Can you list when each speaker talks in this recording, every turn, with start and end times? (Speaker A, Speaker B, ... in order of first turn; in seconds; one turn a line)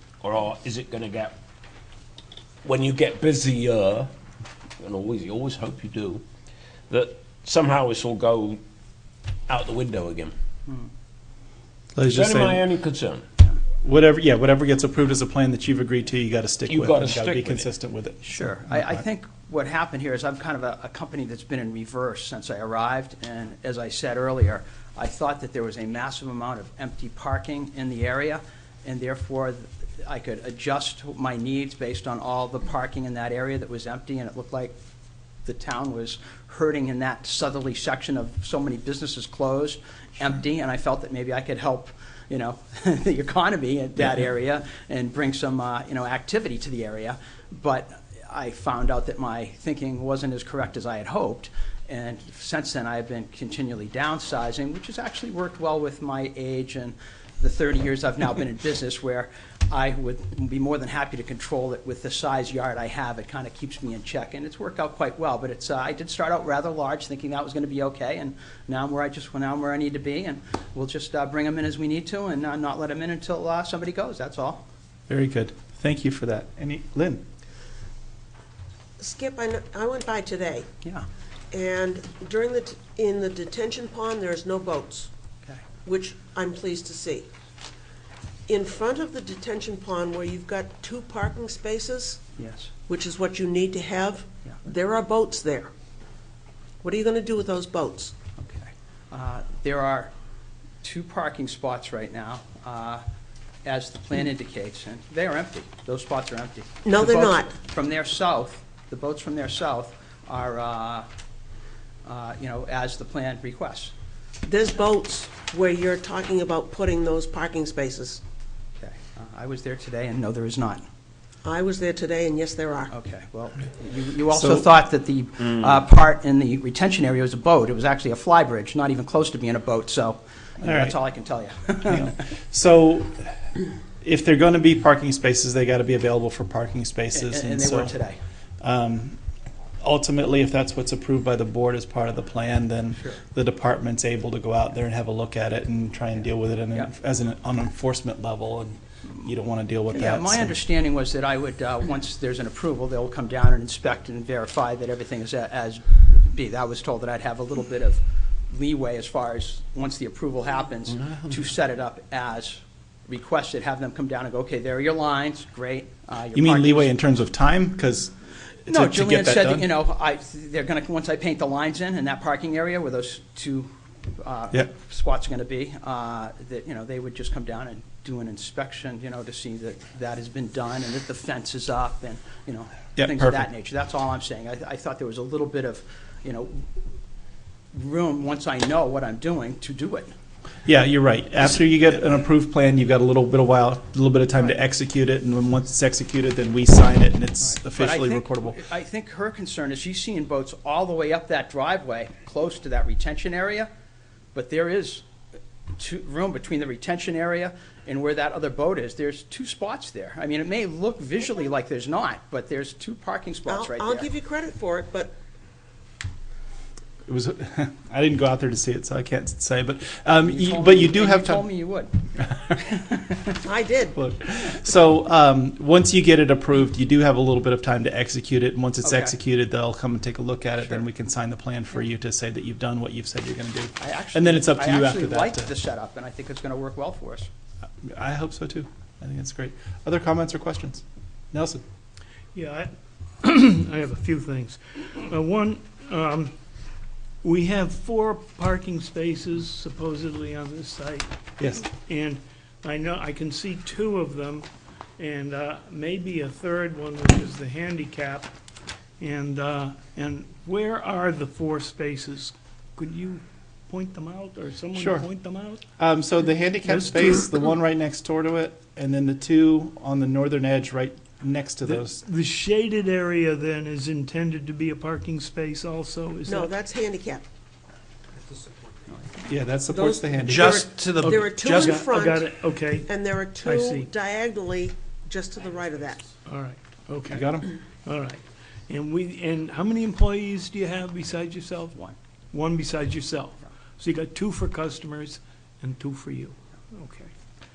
Speaker A: 0.2-1.4
Speaker A: 2.6-4.1
Speaker A: 4.8-6.2
Speaker A: 6.9-8.6
Speaker A: 9.5-10.3
Speaker B: 11.9-12.6
Speaker A: 12.1-13.2
Speaker B: 13.8-19.1
Speaker A: 16.7-17.7
Speaker C: 18.2-34.7
Speaker C: 35.5-74.6
Speaker B: 75.1-77.2
Speaker D: 79.0-80.7
Speaker D: 81.5-85.1
Speaker D: 85.8-87.3
Speaker D: 88.5-92.2
Speaker C: 92.4-92.7
Speaker D: 92.9-95.7
Speaker D: 96.8-98.2
Speaker C: 98.4-100.1
Speaker C: 100.8-103.0
Speaker C: 103.7-111.1
Speaker D: 106.8-107.5
Speaker C: 112.0-113.9
Speaker D: 114.4-118.2
Speaker C: 118.8-120.9
Speaker D: 121.4-122.9
Speaker C: 122.9-132.2
Speaker B: 124.3-124.7
Speaker B: 130.6-131.0
Speaker B: 131.8-133.4
Speaker B: 134.0-137.9
Speaker C: 137.1-138.2
Speaker B: 138.6-139.2
Speaker B: 139.8-150.6
Speaker C: 142.9-143.2
Speaker C: 146.2-146.9
Speaker C: 149.9-166.9
Speaker B: 166.3-168.1
Speaker B: 168.7-169.7
Speaker C: 168.7-186.7
Speaker B: 182.9-183.4
Speaker C: 187.7-190.1
Speaker B: 190.7-198.6
Speaker C: 197.4-203.7
Speaker C: 204.3-205.1
Speaker C: 205.8-214.1
Speaker D: 213.5-215.1
Speaker B: 217.1-221.4
Speaker C: 220.2-222.0
Speaker C: 222.7-223.4
Speaker D: 223.4-223.9
Speaker B: 223.9-235.5
Speaker C: 228.8-229.2
Speaker C: 230.6-230.8
Speaker C: 233.8-237.3
Speaker B: 237.8-241.6
Speaker E: 242.3-242.7
Speaker E: 243.2-246.3
Speaker E: 247.2-258.3
Speaker B: 251.4-251.6
Speaker E: 259.0-265.6
Speaker B: 264.8-265.1
Speaker B: 265.8-272.0
Speaker E: 266.7-267.3
Speaker E: 271.6-276.5
Speaker D: 276.2-277.2
Speaker B: 279.2-280.6
Speaker D: 279.7-282.3
Speaker C: 280.2-281.8
Speaker E: 281.0-282.9
Speaker D: 282.9-286.1
Speaker E: 283.4-283.9
Speaker E: 286.2-291.8
Speaker B: 287.1-287.5
Speaker E: 292.3-297.1